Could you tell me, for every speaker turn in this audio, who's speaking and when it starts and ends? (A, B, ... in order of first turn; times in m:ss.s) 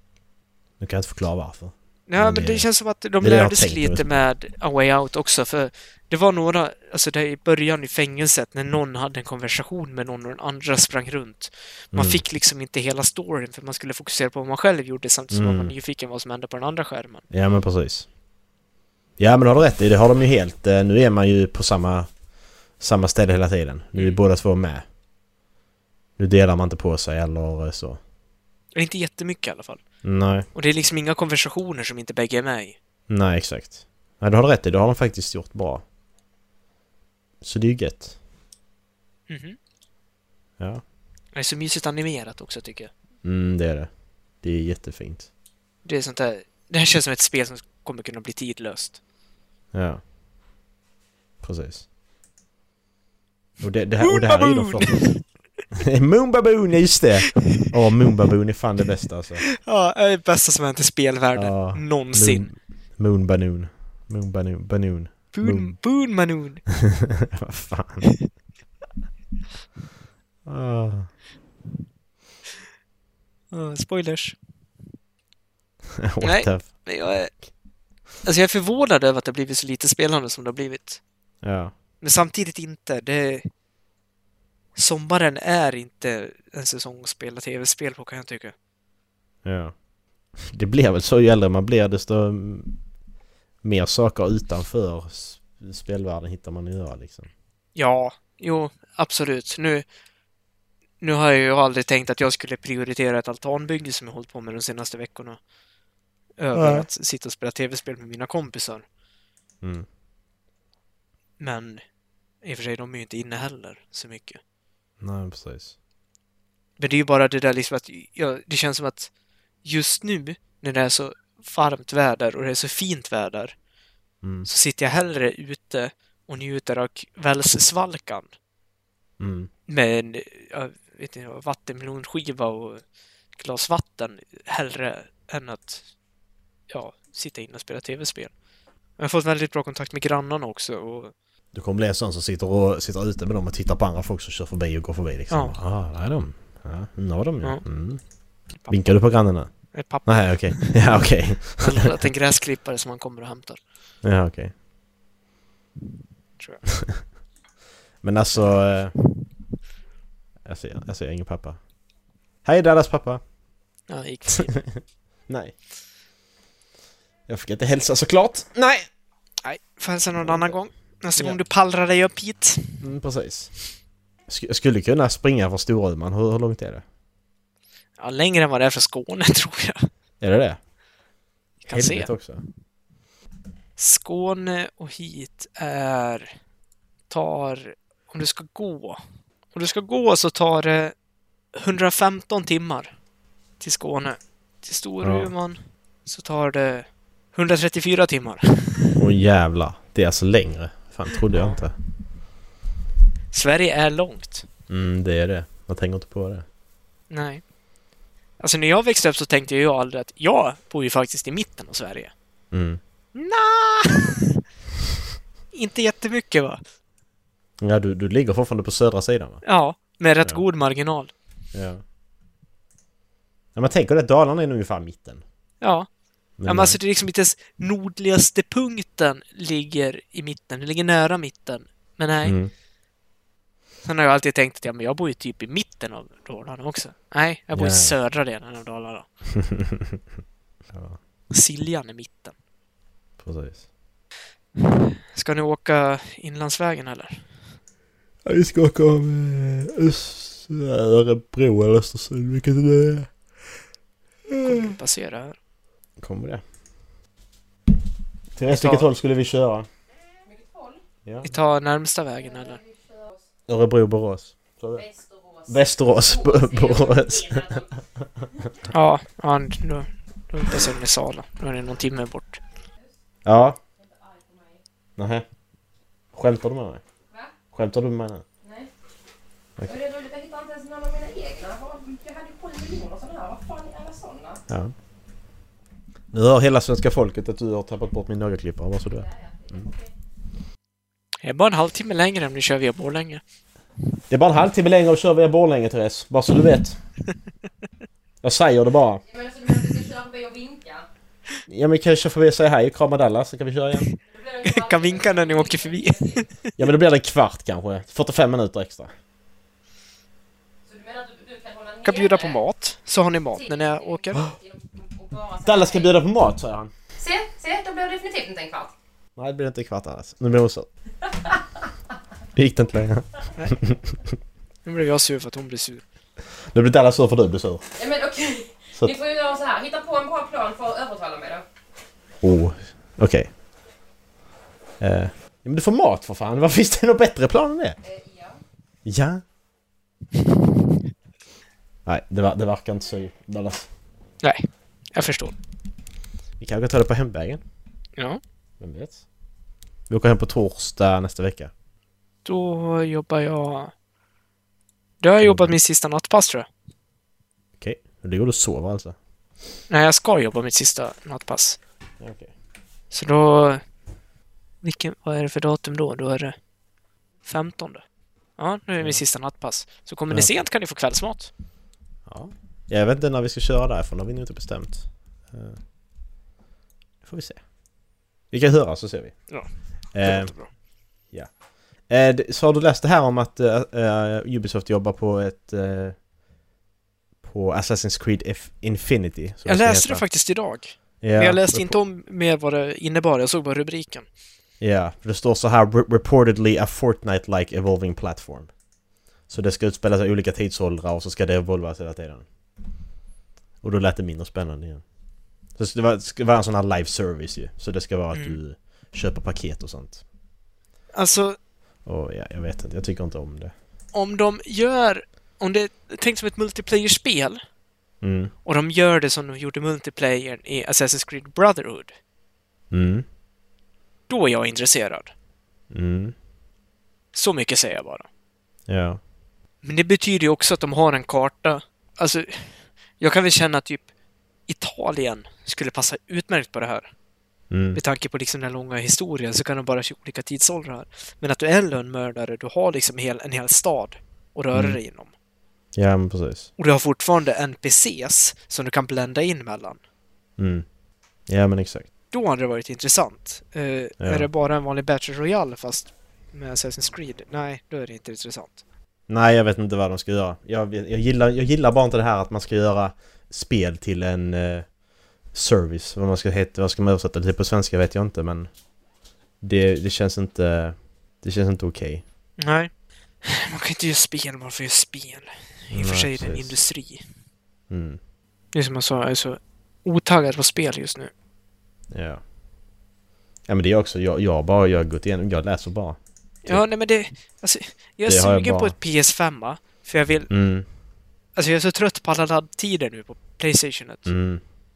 0:00.8-0:02.7 A
0:02.1-0:17.3 B
0:03.2-0:04.2 A
0:11.9-0:12.2 A
0:15.3-0:15.7 A
0:17.3-0:18.1 A
0:19.2-0:22.1 A
0:22.8-0:24.8 A
0:26.2-0:28.0 A
0:28.7-0:29.8 B
0:30.0-0:30.5 A
0:30.5-0:32.8 B
0:33.1-0:35.8 A
0:37.4-0:38.2 A
0:39.3-0:39.6 B
0:41.4-0:42.9 B
0:43.2-0:43.9 A
0:44.4-0:45.3 A
0:45.8-0:49.0 B
0:49.7-0:50.0 A
0:51.4-0:51.9 A
0:53.6-0:55.2 A
0:54.0-0:55.2 B
0:55.8-0:59.5 A
0:57.4-0:57.7 B
0:59.6-1:02.5 B
1:01.4-1:05.8 A
1:05.3-1:06.6 B
1:06.7-1:08.1 A
1:10.5-1:11.1 A
1:13.5-1:14.4 B
1:16.0-1:16.7 A
1:16.2-1:17.3 B
1:18.2-1:21.0 B
1:21.4-1:21.7 A
1:22.0-1:23.5 B
1:24.8-1:28.5 B
1:29.4-1:29.7 A
1:30.4-1:32.8 A
1:33.6-1:37.3 A
1:37.8-1:39.9 B
1:41.0-1:45.4 B
1:46.4-1:48.8 B
1:46.6-1:46.9 A
1:49.6-1:49.9 A
1:51.4-1:51.8 B
1:52.4-1:54.4 B
1:55.0-1:55.8 A
1:56.8-1:59.1 B
1:59.6-2:03.6 B
2:04.2-2:04.5 A
2:04.4-2:08.3 B
2:09.2-2:09.5 A
2:09.7-2:12.8 B
2:13.4-2:15.9 B
2:16.7-2:18.3 B
2:19.0-2:21.1 B
2:21.5-2:28.0 A
2:25.3-2:25.6 B
2:28.6-2:28.8 B
2:28.7-2:31.9 A
2:29.7-2:33.6 B
2:34.0-2:34.5 A
2:36.4-2:36.7 B
2:38.0-2:38.9 A
2:40.4-2:41.6 A
2:42.4-2:43.2 A
2:43.9-2:44.6 B
2:44.3-2:45.6 A
2:47.3-2:48.9 A
2:49.4-2:52.8 B
2:50.2-2:50.6 A
2:52.8-2:53.5 A
2:54.3-2:56.8 A
2:58.0-2:59.9 B
3:00.2-3:00.6 A
3:01.6-3:02.1 B
3:01.7-3:02.4 A
3:03.8-3:06.3 B
3:07.1-3:09.0 B
3:09.5-3:10.9 B
3:11.6-3:12.9 B
3:13.6-3:19.0 B
3:15.0-3:15.3 A
3:19.0-3:21.8 A
3:21.3-3:21.6 B
3:23.3-3:24.4 B
3:24.7-3:26.5 A
3:27.1-3:27.4 B
3:28.4-3:32.1 B
3:32.5-3:32.8 A
3:33.2-3:34.3 B
3:35.5-3:36.6 B
3:37.6-3:39.4 A
3:39.4-3:41.1 B
3:41.5-3:41.8 A
3:43.6-3:45.2 A
3:45.6-3:45.9 B
3:46.4-3:46.8 A
3:46.4-3:52.4 B
3:52.2-3:52.5 A
3:53.8-3:59.1 B
3:57.6-3:57.9 A
3:59.4-4:00.0 A
4:00.7-4:01.0 A
4:01.3-4:02.4 B
4:03.2-4:03.6 A
4:04.6-4:07.2 B
4:08.2-4:13.1 A
4:14.3-4:14.8 A
4:14.4-4:15.4 B
4:16.0-4:16.4 A
4:18.4-4:19.7 A
4:18.5-4:18.9 B
4:20.3-4:20.8 C
4:21.0-4:21.3 A
4:21.2-4:22.6 B
4:22.2-4:23.2 C
4:23.5-4:24.8 A
4:24.7-4:27.7 C
4:25.5-4:27.6 A
4:28.7-4:32.4 B
4:33.2-4:33.6 A
4:33.8-4:34.6 C
4:35.0-4:35.2 A
4:36.1-4:36.8 A
4:37.5-4:38.2 A
4:38.4-4:38.7 C
4:39.6-4:44.4 C
4:46.1-4:49.1 A
4:48.9-4:49.9 C
4:51.2-4:53.2 B
4:54.1-4:56.8 A
4:58.2-4:59.0 A
4:59.1-5:00.9 C
5:01.5-5:03.9 A
5:03.8-5:06.5 B
5:04.0-5:06.3 C
5:06.6-5:08.9 A
5:10.7-5:12.4 C
5:11.8-5:14.2 B
5:13.3-5:15.9 C
5:15.4-5:16.7 A
5:17.0-5:18.7 C
5:19.2-5:20.7 A
5:22.4-5:24.0 A
5:24.6-5:25.8 B
5:26.5-5:27.6 A
5:27.8-5:31.4 C
5:32.2-5:33.3 A
5:34.8-5:37.8 A
5:37.8-5:38.4 C
5:38.8-5:39.2 A
5:41.9-5:43.7 A
5:44.2-5:45.3 B
5:46.4-5:47.4 A
5:48.6-5:49.0 A
5:49.9-5:51.5 A
5:52.2-5:53.7 B
5:55.0-5:56.5 B
5:55.2-5:55.6 A
5:57.6-5:59.0 A
5:59.7-6:01.6 B
6:02.0-6:02.3 A
6:02.9-6:03.6 B
6:04.6-6:06.4 B
6:07.2-6:07.8 B
6:08.4-6:11.3 B
6:12.1-6:15.6 A
6:17.0-6:17.4 A
6:18.3-6:19.2 A
6:19.9-6:20.3 A
6:20.0-6:20.5 B
6:21.9-6:26.0 A
6:27.2-6:30.0 A
6:29.5-6:34.1 B
6:31.0-6:31.8 A
6:34.6-6:38.5 A
6:39.3-6:42.3 A
6:43.6-6:44.8 A
6:45.6-6:50.0 A
6:48.1-6:48.4 B
6:50.9-6:51.4 B
6:51.9-6:53.5 A
6:53.9-6:57.4 B
6:58.0-6:58.3 A
6:58.4-7:02.0 B
7:02.7-7:03.0 A
7:04.1-7:05.1 B
7:05.7-7:06.2 A
7:07.1-7:08.1 B
7:08.7-7:09.0 A
7:09.6-7:13.9 B
7:14.5-7:16.9 B
7:17.5-7:17.8 A
7:17.8-7:25.1 B
7:25.8-7:26.5 A
7:26.6-7:29.8 B
7:30.4-7:30.6 A
7:31.3-7:31.9 A
7:32.1-7:38.6 B
7:34.0-7:34.3 A
7:39.1-7:44.7 A
7:45.3-7:48.5 A
7:49.4-7:52.0 A
7:52.4-7:52.7 B
7:53.2-7:57.0 B
7:55.7-7:56.6 A
7:57.7-7:58.0 A
7:58.5-8:01.1 B
8:01.9-8:02.2 A
8:03.5-8:06.6 A
8:06.4-8:10.3 B
8:08.1-8:08.8 A
8:10.3-8:10.7 A
8:11.4-8:14.1 B
8:14.1-8:14.4 A